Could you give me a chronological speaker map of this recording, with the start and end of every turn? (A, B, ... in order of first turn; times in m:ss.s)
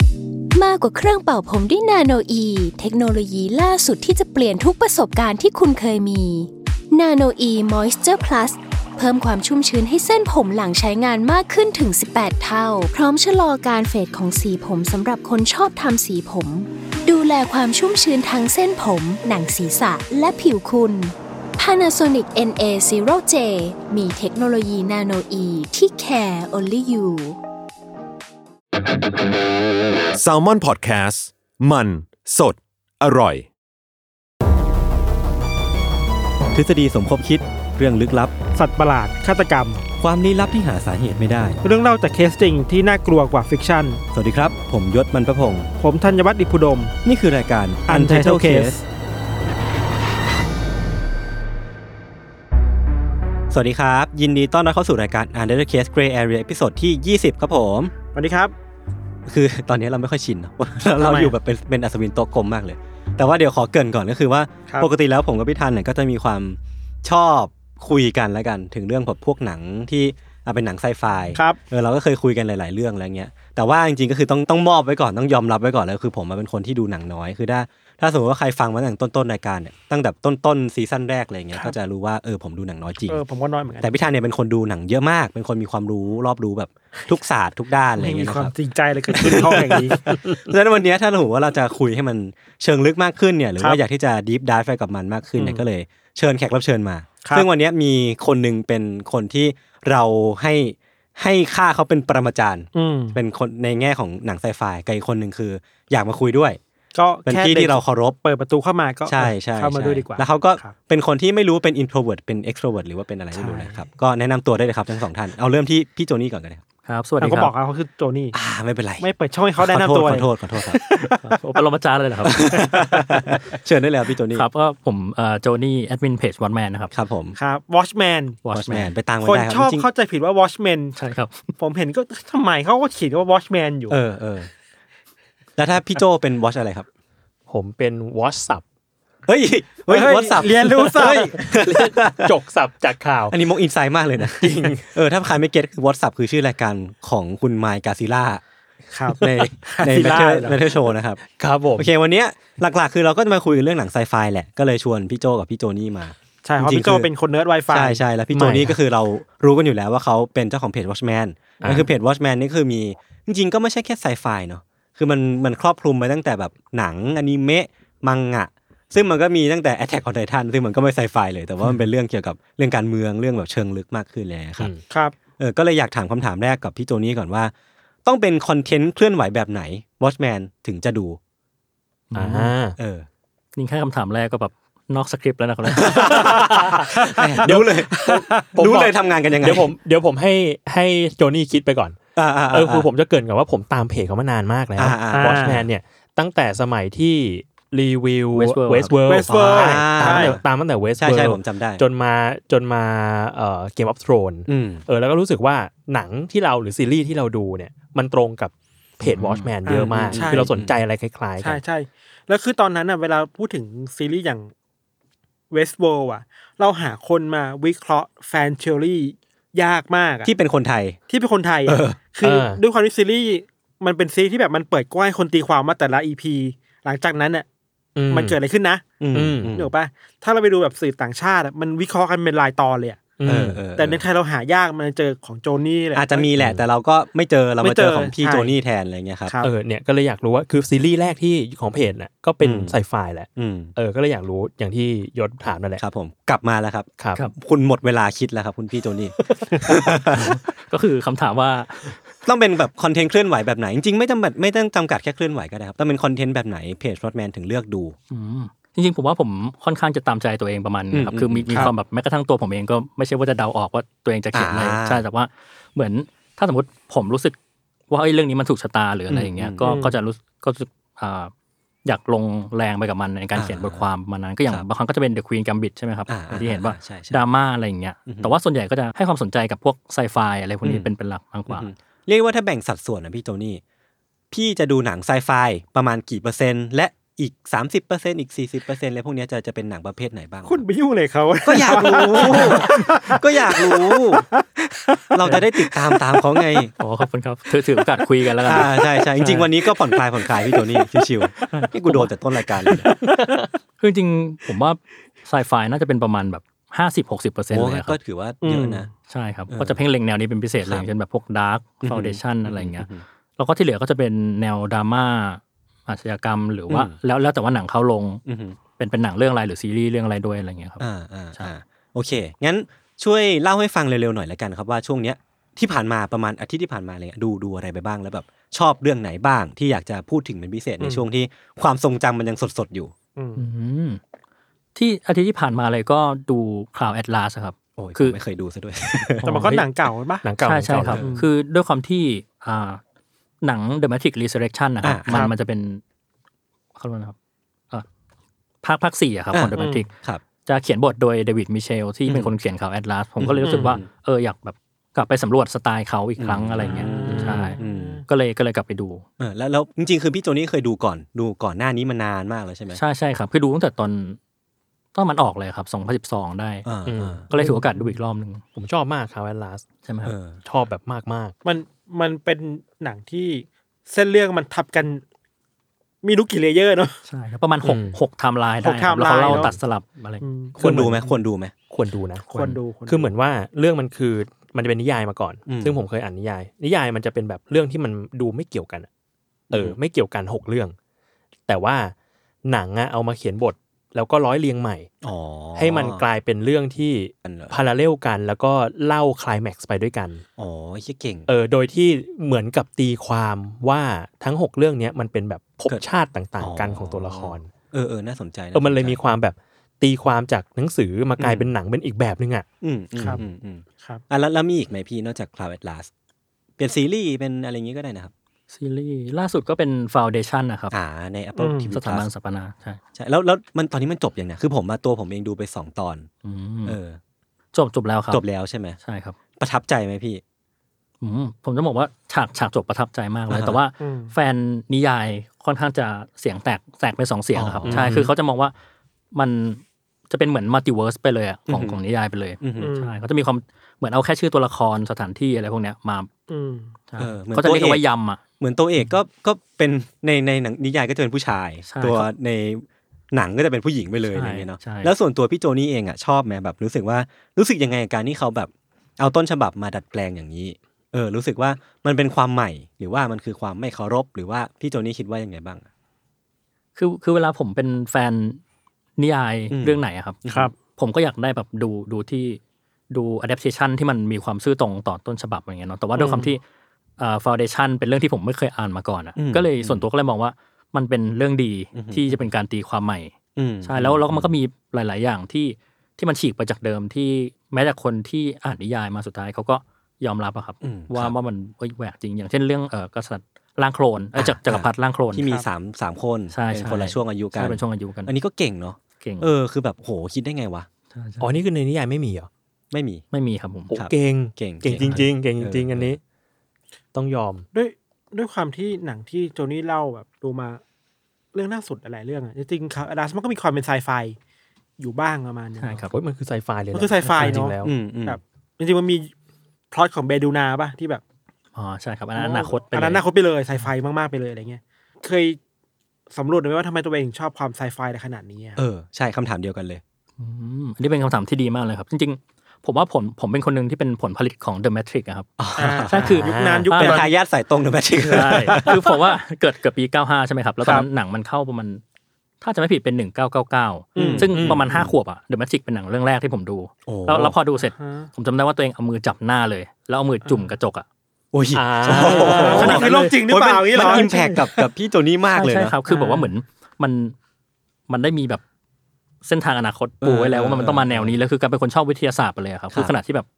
0:00.5-0:27.4 A
0:30.2-0:33.5 B
0:36.5-0:38.3 C
0:38.5-0:39.8 D
0:40.0-0:41.6 C
0:41.6-0:44.0 D
0:44.1-0:45.7 C
0:45.8-0:46.9 D
0:47.0-0:48.8 C
0:47.9-0:48.8 D
0:53.5-0:57.9 C
0:58.1-0:58.5 D
0:59.2-1:23.2 C
1:01.0-1:01.3 D
1:11.3-1:11.6 D
1:23.1-1:23.9 D
1:23.8-1:28.5 C
1:27.9-1:30.2 D
1:29.1-1:46.6 C
1:35.4-1:35.6 D
1:42.7-1:43.2 D
1:46.9-1:50.8 D
1:47.2-1:48.2 C
1:49.1-1:56.6 C
1:53.3-1:53.8 D
1:56.8-1:57.5 E
1:57.2-1:58.4 D
1:58.3-1:59.1 C
1:59.0-2:01.1 D
1:59.6-2:01.1 C
2:01.2-2:02.6 E
2:02.2-2:04.4 C
2:04.3-2:06.9 E
2:06.9-2:07.4 C
2:07.4-2:08.5 D
2:08.4-2:08.9 E
2:08.5-2:09.8 C
2:09.2-2:11.0 D
2:11.0-2:11.5 E
2:11.6-2:14.0 D
2:13.9-2:14.5 C
2:15.6-2:16.9 C
2:17.5-2:18.6 F
2:19.3-2:22.3 C
2:19.9-2:21.5 D
2:21.5-2:23.4 F
2:23.3-2:28.4 C
2:24.2-2:24.9 F
2:28.9-2:30.6 D
2:29.1-2:31.2 C
2:29.9-2:30.4 F
2:31.4-2:31.9 F
2:31.8-2:37.1 C
2:36.4-2:38.0 D
2:37.7-2:54.7 C
2:38.4-2:38.6 F
2:41.6-2:41.9 F
2:55.4-2:57.5 C
2:58.0-3:01.2 C
3:02.1-3:02.6 E
3:02.1-3:02.8 F
3:02.8-3:03.1 C
3:03.6-3:06.4 E
3:05.6-3:09.7 C
3:06.2-3:12.0 F
3:08.0-3:08.5 D
3:12.2-3:12.9 C
3:12.5-3:31.6 F
3:14.8-3:15.7 C
3:15.1-3:15.6 D
3:18.3-3:19.0 E
3:19.0-3:20.4 D
3:19.3-3:20.4 C
3:21.0-3:21.8 C
3:24.5-3:24.8 C
3:29.0-3:30.8 C
3:29.6-3:30.5 D
3:31.4-3:34.5 D
3:35.5-3:40.3 D
3:40.2-3:41.0 C
3:41.1-3:47.4 D
3:41.6-3:42.0 C
3:42.2-3:42.6 F
3:48.0-3:48.4 F
3:48.1-3:49.0 D
3:49.0-3:49.7 C
3:49.1-3:49.5 F
3:49.5-3:53.2 D
3:53.2-3:53.6 F
3:53.2-3:54.0 C
3:53.8-3:56.3 D
3:55.9-3:59.4 C
3:56.4-3:56.6 F
3:57.6-3:58.5 D
3:59.2-3:59.5 D
3:59.4-4:05.8 F
4:02.4-4:02.8 C
4:03.4-4:03.7 C
4:05.8-4:10.4 C
4:10.1-4:12.0 E
4:12.2-4:18.0 C
4:18.1-4:27.4 E
4:20.9-4:21.7 C
4:24.3-4:25.0 C
4:27.9-4:31.3 E
4:29.1-4:29.7 C
4:29.6-4:29.9 D
4:31.8-4:41.7 E
4:33.3-4:33.8 C
4:36.1-4:37.2 C
4:38.1-4:38.3 C
4:41.5-4:43.6 C
4:44.3-4:50.6 C
4:50.4-4:56.6 D
4:51.4-4:54.2 C
4:55.1-4:56.7 C
4:56.8-4:59.5 E
4:58.4-5:02.9 C
5:01.5-5:02.1 E
5:03.1-5:03.5 F
5:03.8-5:08.0 E
5:07.5-5:08.9 C
5:08.4-5:08.9 D
5:09.1-5:18.2 E
5:09.5-5:09.8 C
5:11.8-5:13.0 C
5:16.7-5:17.0 C
5:18.2-5:18.6 C
5:18.8-5:20.8 E
5:20.8-5:32.9 C
5:30.8-5:31.0 D
5:33.2-5:33.4 D
5:33.4-5:34.0 E
5:34.7-5:38.2 E
5:37.8-5:39.2 C
5:39.2-5:40.2 D
5:39.2-5:39.5 E
5:39.2-5:39.7 F
5:40.2-5:41.0 F
5:40.4-5:42.8 E
5:41.0-5:41.2 D
5:43.4-5:45.8 E
5:44.8-5:45.3 C
5:45.1-5:45.3 D
5:46.8-5:47.1 E
5:48.6-5:49.9 E
5:49.3-5:50.2 C
5:49.6-5:49.8 D
5:50.4-5:59.0 E
5:52.1-5:52.3 C
5:53.2-5:53.8 C
5:56.2-5:58.0 C
5:56.6-5:58.0 D
5:57.0-5:57.5 F
5:59.2-6:02.8 C
6:02.7-6:04.2 E
6:04.9-6:06.7 E
6:06.6-6:07.2 C
6:06.8-6:07.5 F
6:07.3-6:08.4 E
6:07.4-6:07.9 D
6:08.6-6:09.6 F
6:09.8-6:10.1 E
6:10.0-6:10.4 C
6:10.4-6:11.3 F
6:11.4-6:15.0 D
6:16.0-6:17.0 D
6:17.0-6:20.2 E
6:17.6-6:18.0 F
6:18.6-6:19.5 D
6:19.3-6:19.6 F
6:20.2-6:20.6 D
6:20.6-6:21.5 C
6:20.6-6:21.0 F
6:21.7-6:28.9 F
6:22.3-6:23.1 D
6:25.5-6:25.8 C
6:29.5-6:29.8 C
6:29.5-6:30.7 F
6:31.5-6:31.9 F
6:32.4-6:34.9 F
6:35.0-6:36.0 C
6:35.6-6:40.2 F
6:37.2-6:37.6 C
6:40.4-6:41.3 C
6:41.3-6:47.5 F
6:46.4-6:49.0 C
6:48.5-6:52.4 F
6:51.2-6:51.5 C
6:52.6-6:55.9 C
6:56.6-6:58.1 C
6:58.5-7:00.7 E
7:00.7-7:02.1 C
7:01.4-7:01.7 D
7:01.7-7:02.8 E
7:03.0-7:06.1 C
7:06.2-7:06.8 E
7:06.6-7:07.0 C
7:07.5-7:08.2 E
7:08.1-7:08.8 C
7:08.8-7:09.2 E
7:09.4-7:10.2 C
7:11.0-7:18.5 E
7:13.3-7:13.6 C
7:13.8-7:14.1 D
7:17.3-7:18.1 C
7:17.6-7:18.1 F
7:19.1-7:26.1 E
7:21.5-7:21.8 C
7:22.4-7:22.7 C
7:22.6-7:22.9 D
7:26.3-7:26.7 D
7:26.9-7:28.2 E
7:27.0-7:27.8 C
7:28.4-7:45.6 C
7:31.6-7:32.1 E
7:34.1-7:34.9 E
7:46.8-7:48.4 E
7:49.0-7:56.4 E
7:49.5-7:50.5 C
7:56.0-7:56.2 D
7:57.0-8:15.4 E
7:59.2-7:59.8 C
8:01.7-8:02.3 C
8:03.4-8:04.3 C
8:10.6-8:11.1 C
8:14.1-8:20.7 C
8:16.3-8:18.1 E
8:19.0-8:19.3 E
8:20.9-8:21.4 E
8:21.2-8:22.3 F
8:22.7-8:23.0 C
8:23.1-8:23.7 E
8:23.7-8:26.0 F
8:23.7-8:25.9 C
8:24.8-8:25.1 E
8:26.9-8:27.4 F
8:27.5-8:30.6 D
8:31.3-8:34.2 D
8:34.8-8:35.8 D
8:35.6-8:35.9 E
8:35.9-8:37.7 F
8:36.7-8:39.1 D
8:37.4-8:38.2 C
8:39.7-8:41.0 D
8:41.5-8:43.0 E
8:42.2-8:45.4 D
8:46.1-8:48.6 D
8:48.6-8:49.8 C
8:50.2-8:55.3 E
8:55.4-8:56.2 C
8:55.6-8:57.1 D
8:55.9-8:57.1 E
8:56.0-8:56.7 F
8:56.8-8:58.9 C
8:58.0-9:01.8 E
9:02.4-9:10.8 E
9:03.9-9:04.3 D
9:04.0-9:04.9 C
9:04.3-9:04.6 F
9:06.8-9:07.4 C
9:07.8-9:08.1 D
9:11.3-9:15.8 C
9:11.5-9:12.8 F
9:11.9-9:13.2 E
9:11.9-9:14.1 D
9:13.8-9:14.6 E
9:15.3-9:17.1 E
9:15.9-9:16.3 D
9:17.9-9:18.4 E
9:19.2-9:23.3 E
9:20.0-9:21.2 C